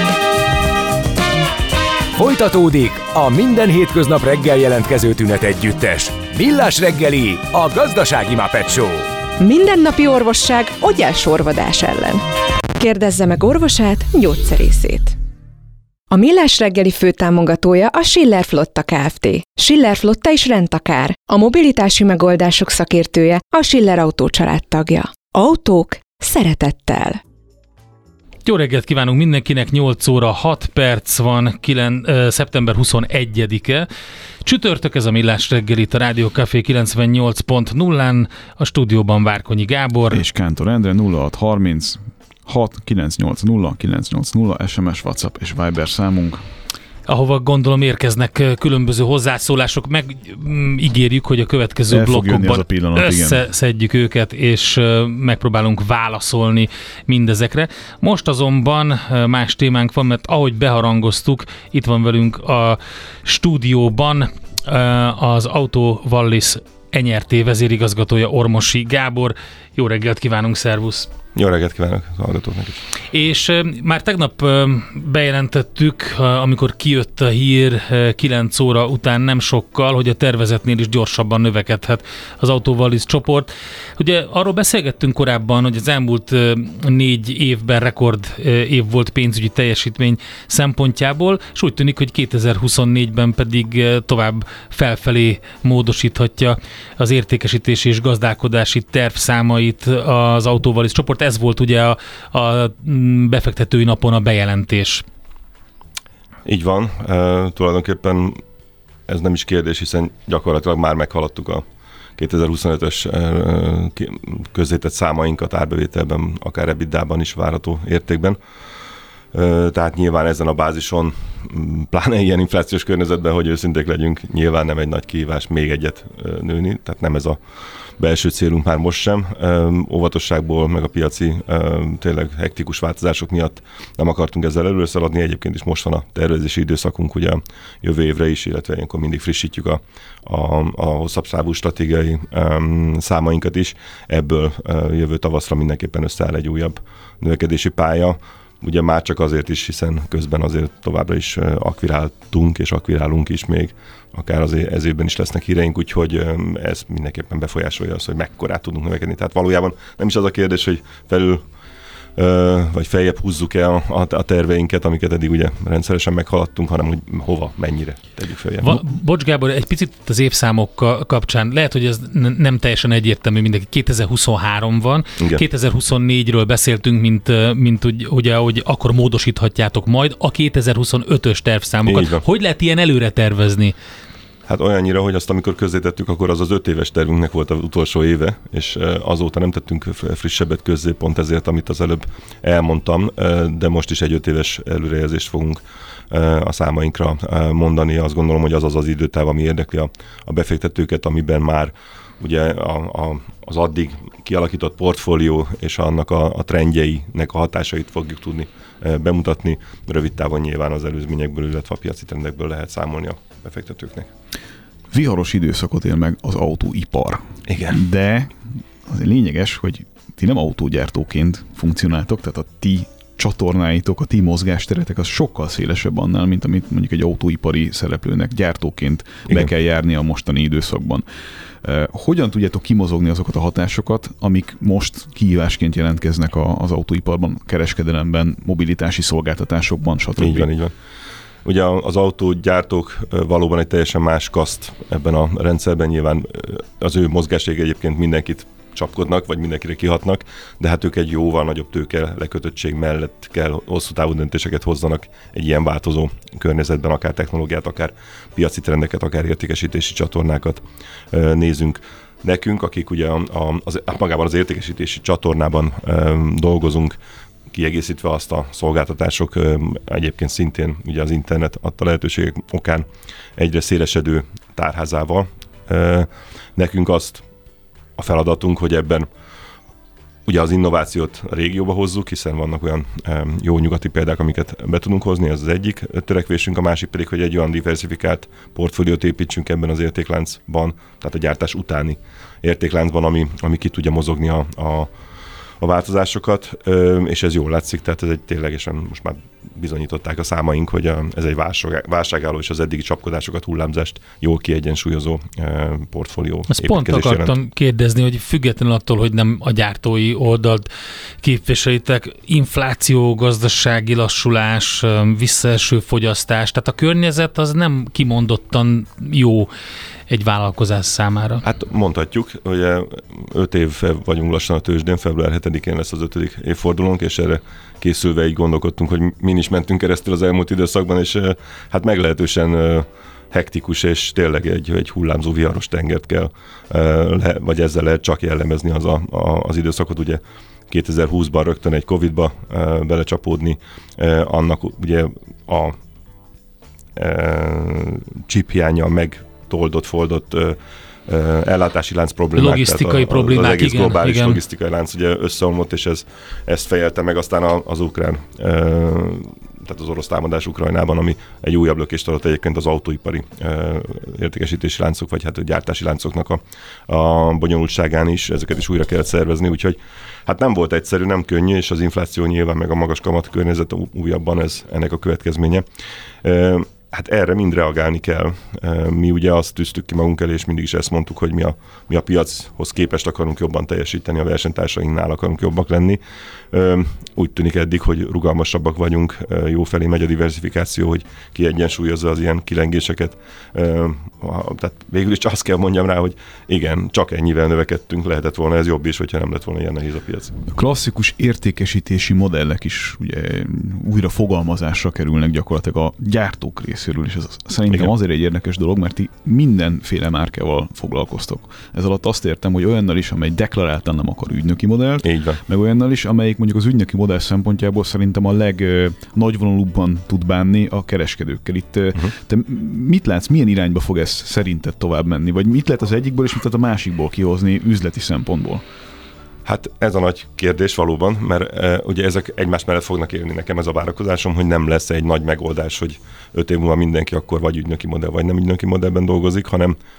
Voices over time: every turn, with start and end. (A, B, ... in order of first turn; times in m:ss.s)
0:02.2-0:09.1 A
0:09.4-0:12.2 B
0:12.8-0:15.2 B
0:16.1-0:27.2 B
0:28.4-0:33.9 C
0:34.4-0:40.2 C
0:40.1-0:46.4 D
0:47.1-1:11.1 C
0:51.9-0:53.4 D
1:11.4-1:12.8 E
1:13.1-1:45.0 C
1:46.5-1:48.4 E
1:49.1-1:51.6 E
1:52.2-1:58.4 E
1:59.3-2:07.4 E
2:08.0-2:41.4 E
2:42.2-2:48.8 E
2:48.6-3:03.8 C
3:01.9-3:02.2 E
3:04.5-3:34.1 E
3:34.9-3:51.1 D
3:37.5-3:37.8 E
3:51.6-4:00.5 D
4:00.2-4:00.7 E
4:01.4-4:27.0 E
4:27.5-4:32.9 E
4:33.4-4:37.2 E
4:38.0-4:39.1 E
4:40.3-4:54.9 E
4:55.6-5:07.3 E
5:06.5-5:10.7 C
5:11.2-5:19.5 C
5:20.1-5:21.4 C
5:21.4-5:45.8 E
5:47.0-6:15.6 E
5:52.4-5:54.4 C
6:16.2-6:26.0 E
6:26.5-6:40.4 E
6:40.5-7:08.6 D
6:55.0-6:55.4 E
7:09.4-7:19.8 E